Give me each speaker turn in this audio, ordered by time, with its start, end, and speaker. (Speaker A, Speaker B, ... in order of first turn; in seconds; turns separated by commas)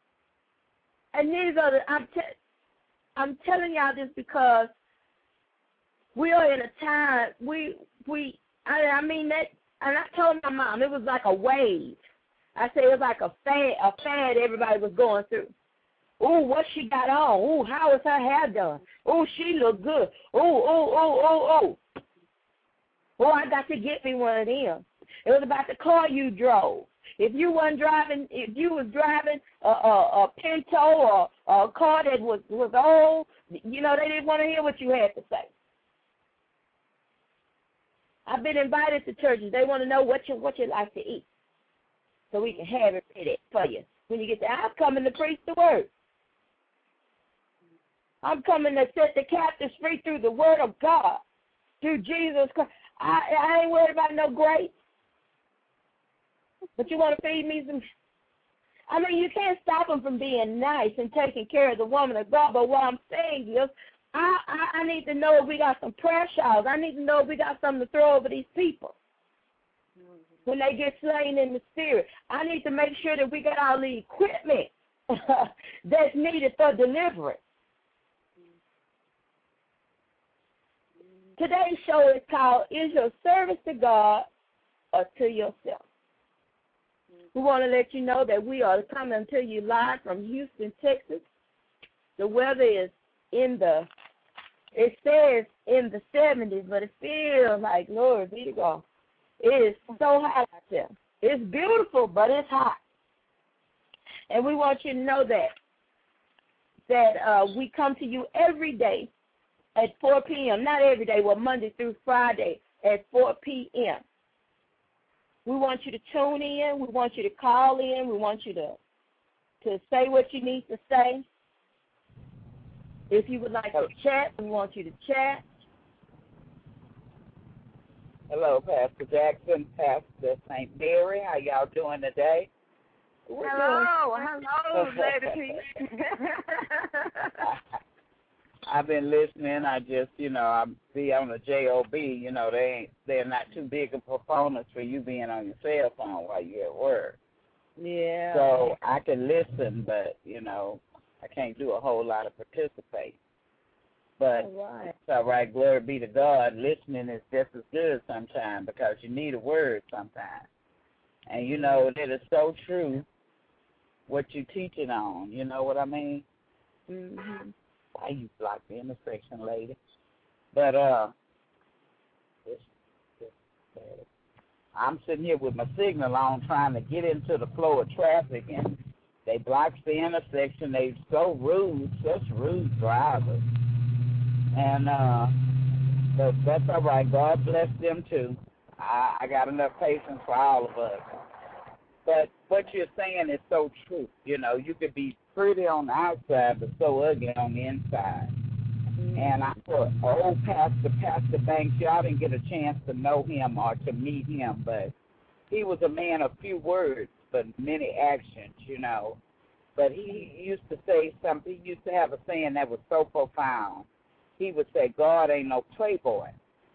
Speaker A: 1.1-2.4, Speaker A: 3.2-4.7, Speaker A: 6.2-12.0, Speaker A: 12.6-15.5, Speaker A: 16.2-21.8, Speaker A: 23.2-35.5, Speaker A: 38.3-41.2, Speaker A: 42.3-45.9, Speaker A: 48.2-51.2, Speaker A: 51.8-54.7, Speaker A: 56.8-57.8, Speaker A: 58.9-69.0, Speaker B: 70.0-70.2, Speaker A: 70.5-77.4, Speaker A: 81.4-84.3, Speaker A: 84.9-85.8, Speaker A: 87.3-91.2, Speaker A: 92.2-93.9, Speaker A: 94.8-98.8, Speaker A: 99.4-102.8, Speaker A: 104.3-105.5, Speaker A: 106.9-109.1, Speaker A: 109.8-114.0, Speaker A: 115.5-118.8, Speaker A: 119.6-121.2, Speaker A: 123.1-125.4, Speaker C: 128.3-132.5, Speaker A: 133.3-133.9, Speaker B: 133.4-137.5, Speaker C: 134.7-135.7, Speaker C: 138.7-147.2, Speaker A: 147.8-148.8, Speaker C: 148.3-153.2, Speaker C: 154.2-160.5, Speaker A: 154.4-154.9, Speaker C: 161.3-163.1, Speaker A: 161.4-161.9, Speaker C: 164.1-166.2, Speaker A: 166.9-167.5, Speaker C: 168.0-169.8, Speaker C: 170.5-171.1, Speaker C: 173.2-174.1, Speaker C: 174.7-183.4, Speaker C: 184.6-185.3, Speaker C: 186.2-191.0, Speaker C: 192.1-198.4, Speaker A: 199.0-199.4, Speaker C: 199.2-204.9, Speaker C: 205.5-209.2, Speaker C: 209.8-213.9, Speaker C: 214.4-216.4